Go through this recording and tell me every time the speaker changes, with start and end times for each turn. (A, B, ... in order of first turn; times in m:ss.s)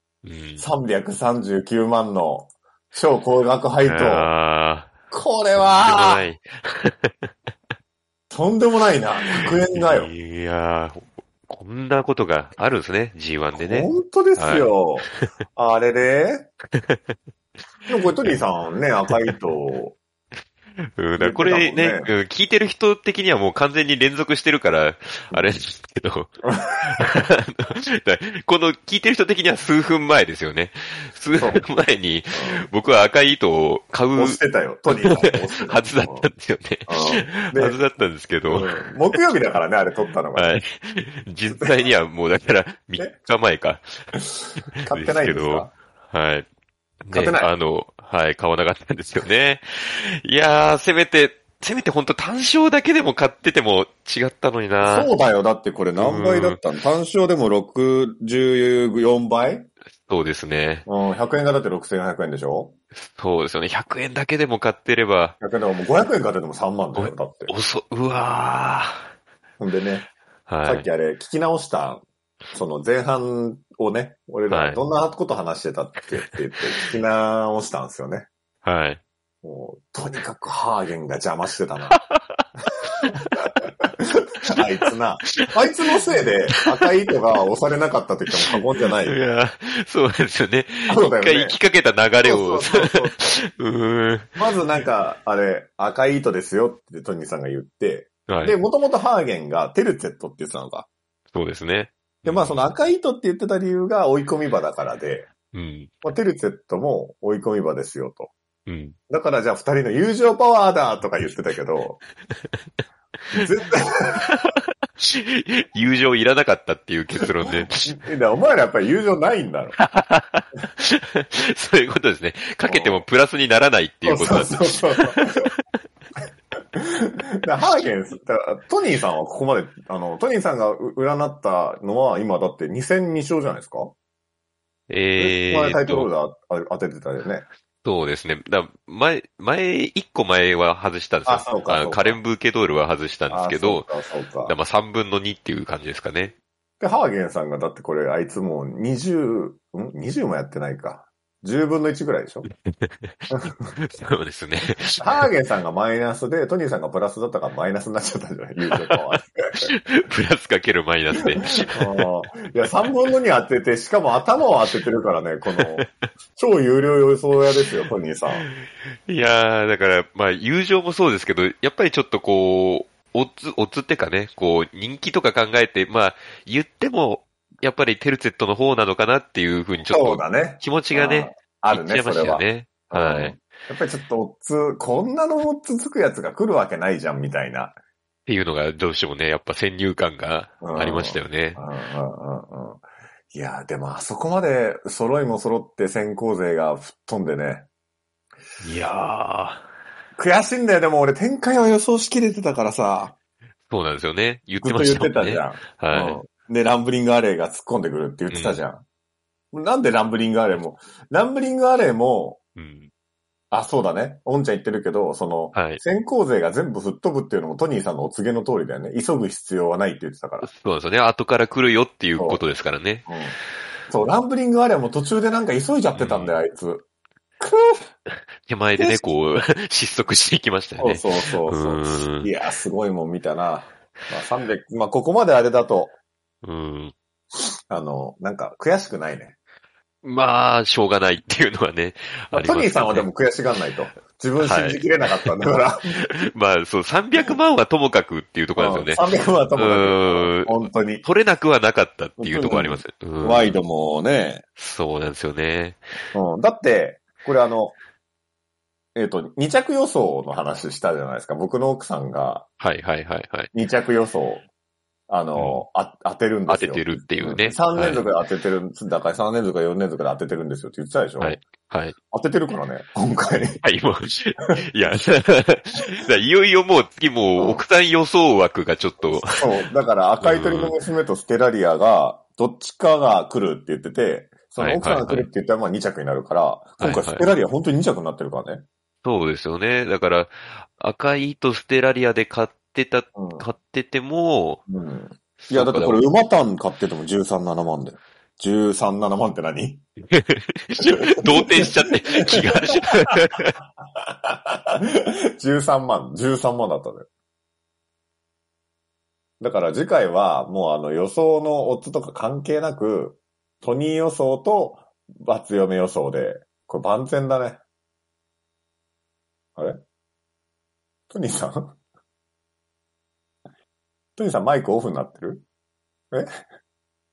0:00.2-0:00.7 A
0:00.6-0:04.3 B
0:03.8-0:04.9 A
0:05.1-0:06.3 B
0:05.6-0:07.3 A
0:08.3-0:10.1 B
0:09.2-0:15.3 A
0:13.5-0:16.5 B
0:16.7-0:17.1 A
0:17.9-0:20.0 B
0:20.8-0:26.3 A
0:21.2-0:22.1 B
0:26.5-0:27.3 B
0:26.8-0:34.4 A
0:31.4-0:31.6 B
0:32.3-0:32.6 B
0:34.2-0:36.3 B
0:35.0-0:38.8 A
0:36.9-0:37.8 B
0:38.5-0:40.6 B
0:40.4-0:44.1 A
0:44.8-0:46.4 A
0:44.8-0:45.7 B
0:47.0-0:55.1 A
0:47.1-0:47.5 B
0:54.8-0:59.7 B
0:56.0-0:56.6 A
1:00.0-1:00.8 A
1:00.8-1:02.7 B
1:02.9-1:05.4 A
1:05.4-1:07.5 B
1:07.0-1:09.0 A
1:09.6-1:10.1 B
1:10.5-1:10.9 A
1:10.6-1:12.0 B
1:12.5-1:18.3 B
1:14.5-1:14.8 A
1:18.6-1:19.0 A
1:19.4-1:22.0 B
1:21.9-1:22.4 A
1:23.0-1:23.4 A
1:23.1-1:29.2 B
1:25.4-1:26.2 A
1:29.0-1:34.4 A
1:30.9-1:31.6 B
1:32.2-1:33.4 B
1:34.4-1:40.9 B
1:38.3-1:38.6 A
1:41.3-1:42.6 A
1:42.2-1:45.3 B
1:45.5-1:45.9 A
1:46.0-1:48.3 B
1:48.7-1:49.0 A
1:49.1-1:52.0 B
1:53.3-1:54.3 B
1:54.1-1:58.0 A
1:57.4-1:59.8 B
1:59.8-2:05.5 A
2:02.6-2:03.0 B
2:04.0-2:05.5 B
2:06.7-2:13.9 B
2:14.9-2:16.1 A
2:15.2-2:17.5 B
2:17.8-2:23.9 A
2:21.2-2:22.2 B
2:23.3-2:24.5 B
2:24.4-2:26.3 A
2:26.8-2:32.5 B
2:32.5-2:35.1 A
2:35.0-2:39.7 B
2:39.6-2:42.0 A
2:41.6-2:48.4 B
2:45.6-2:45.9 A
2:49.1-3:03.4 A
2:59.9-3:07.8 B
3:08.3-3:11.6 A
3:10.6-3:17.6 B
3:18.6-3:19.6 A
3:20.2-3:23.1 B
3:23.7-3:26.2 A
3:24.6-3:28.8 B
3:28.3-3:28.6 A
3:29.5-3:32.4 B
3:32.6-3:32.9 A
3:33.5-3:40.5 B
3:35.5-3:35.8 A
3:40.4-3:43.1 A
3:42.2-3:42.4 B
3:43.1-3:43.3 B
3:43.9-3:46.8 B
3:45.9-3:46.4 A
3:47.4-3:47.8 B
3:48.1-3:52.3 A
3:48.8-3:49.0 B
3:50.8-3:55.9 B
3:56.4-3:56.9 A
3:57.7-3:59.3 B
4:00.0-4:03.1 A
4:02.3-4:06.0 B
4:04.4-4:05.2 A
4:06.0-4:09.0 A
4:08.6-4:11.0 B
4:09.6-4:13.6 A
4:12.2-4:14.4 B
4:14.6-4:15.9 A
4:16.1-4:17.7 B
4:18.9-4:22.5 B
4:22.6-4:23.5 A
4:23.5-4:24.4 B
4:25.1-4:31.4 B
4:25.4-4:25.6 A
4:26.5-4:28.0 A
4:31.2-4:32.0 A
4:32.1-4:33.6 B
4:33.6-4:39.5 A
4:37.4-4:37.6 B
4:39.0-4:48.6 B
4:40.2-4:40.7 A
4:44.6-4:45.3 A
4:46.8-4:47.3 A
4:49.0-4:54.6 A
4:53.2-4:53.4 B
4:54.7-4:59.8 B
4:55.5-4:56.0 A
5:00.1-5:03.6 A
5:00.8-5:03.2 B
5:03.9-5:07.0 B
5:09.4-5:17.6 B
5:21.1-5:21.8 B
5:24.2-5:25.4 B